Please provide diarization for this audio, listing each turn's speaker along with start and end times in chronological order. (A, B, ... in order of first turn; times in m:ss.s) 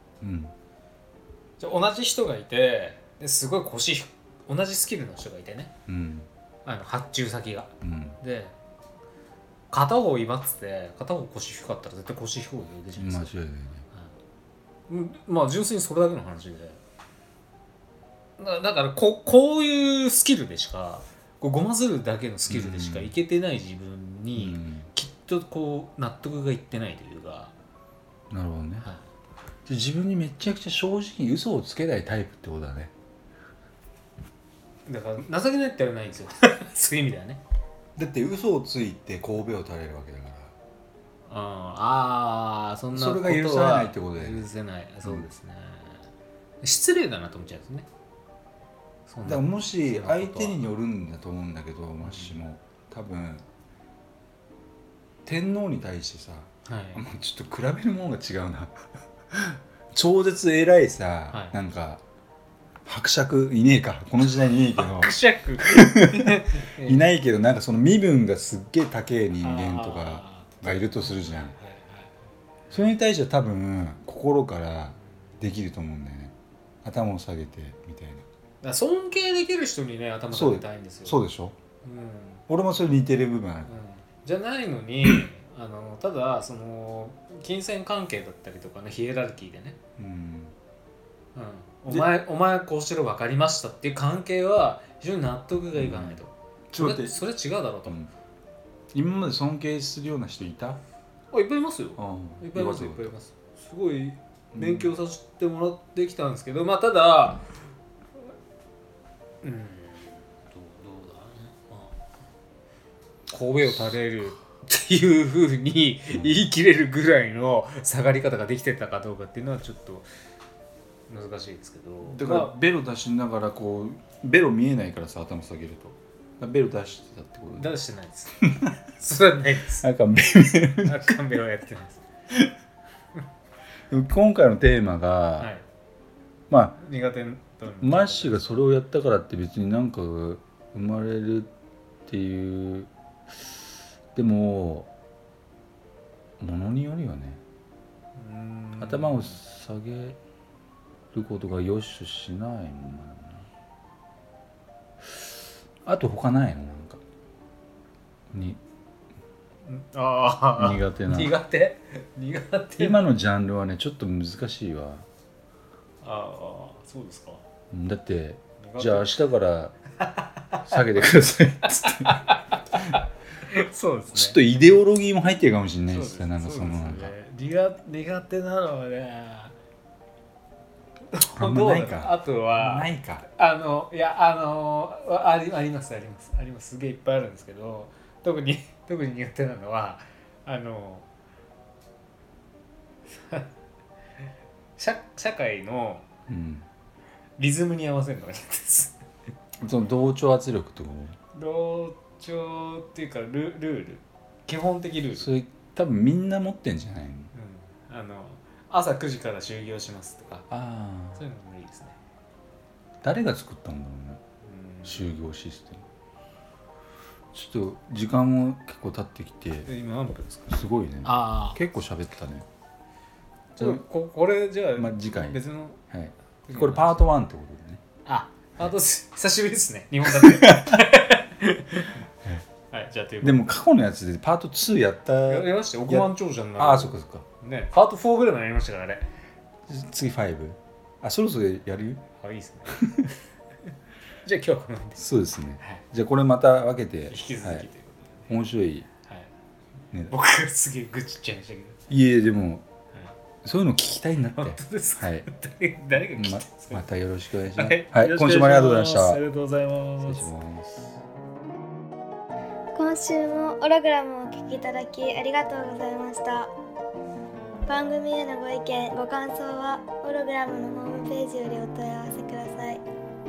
0:00.2-0:00.5 A
0:01.6-0:05.7 B
0:05.9-0:06.3 A
0:06.6-0:08.6 B
0:07.8-0:08.2 A
0:09.7-0:13.3 B
0:13.0-0:13.8 A
0:14.9-0:16.8 B
0:18.4-0:27.5 B
0:22.5-0:23.1 A
0:24.4-0:24.9 A
0:28.3-0:28.9 A
0:29.6-0:32.9 A
0:34.8-0:37.4 B
0:38.0-0:40.5 A
0:41.3-0:46.0 B
0:42.9-0:44.5 A
0:46.6-0:47.9 B
0:49.1-0:50.6 B
0:49.2-0:53.4 A
0:52.0-0:52.4 B
0:55.2-1:02.0 A
0:56.6-0:57.0 B
1:02.8-1:11.6 A
1:04.4-1:07.0 B
1:09.4-1:12.1 B
1:12.7-1:18.2 A
1:18.6-1:21.2 B
1:20.3-1:21.6 A
1:21.8-1:22.4 B
1:22.5-1:23.7 A
1:23.7-1:29.8 B
1:30.0-1:30.5 A
1:31.3-1:38.0 B
1:35.7-1:36.2 A
1:36.7-1:37.2 A
1:37.8-1:38.1 A
1:38.9-1:40.8 A
1:41.3-1:47.5 B
1:42.0-1:43.1 A
1:44.5-1:44.9 A
1:49.4-1:52.0 B
1:53.3-2:00.1 B
1:53.7-1:54.0 A
1:56.1-1:56.4 A
2:01.1-2:02.5 B
2:02.0-2:07.8 A
2:07.6-2:09.8 B
2:08.4-2:08.7 A
2:09.8-2:11.2 A
2:10.8-2:12.0 B
2:13.9-2:15.5 A
2:15.4-2:15.6 B
2:16.5-2:16.8 A
2:16.8-2:18.5 B
2:17.8-2:21.5 A
2:22.1-2:22.9 A
2:24.1-2:24.9 A
2:26.4-2:27.4 A
2:28.1-2:29.4 B
2:28.8-2:30.2 A
2:31.1-2:33.5 A
2:35.1-2:35.3 A
2:35.8-2:37.0 A
2:38.3-2:38.6 A
2:39.6-2:43.0 B
2:40.6-2:41.4 A
2:42.8-2:45.1 A
2:46.0-2:47.4 B
2:47.7-2:49.7 A
2:48.6-2:49.1 B
2:50.0-2:50.8 B
2:50.6-2:53.0 A
2:51.8-2:54.4 B
2:54.1-2:57.1 A
2:55.9-2:59.5 B
3:01.1-3:11.1 B
3:01.3-3:03.2 A
3:13.1-3:13.5 B
3:14.8-3:16.0 B
3:16.3-3:16.6 A
3:17.4-3:19.0 B
3:19.6-3:21.2 A
3:21.3-3:25.3 B
3:25.2-3:27.3 A
3:27.3-3:30.5 B
3:30.5-3:31.2 A
3:31.2-3:32.0 B
3:33.0-3:34.2 A
3:34.4-3:35.1 B
3:34.8-3:35.8 A
3:37.3-3:39.7 A
3:39.6-3:41.6 B
3:40.5-3:42.4 A
3:43.5-3:45.8 B
3:43.6-3:43.8 A
3:44.8-3:47.8 A
3:46.4-3:47.1 B
3:48.0-3:52.0 B
3:50.1-3:50.8 A
3:52.7-3:53.5 B
3:53.2-3:57.2 A
3:55.3-3:59.1 B
3:59.7-4:02.0 A
4:02.2-4:02.8 B
4:02.7-4:03.1 A
4:04.2-4:05.0 B
4:05.0-4:07.7 A
4:07.1-4:08.3 B
4:08.3-4:08.9 A
4:10.1-4:11.8 B
4:11.9-4:12.6 A
4:13.4-4:15.2 A
4:14.3-4:16.8 B
4:16.1-4:19.2 A
4:17.5-4:20.3 B
4:20.0-4:20.9 A
4:22.7-4:26.5 C
4:27.7-4:32.8 C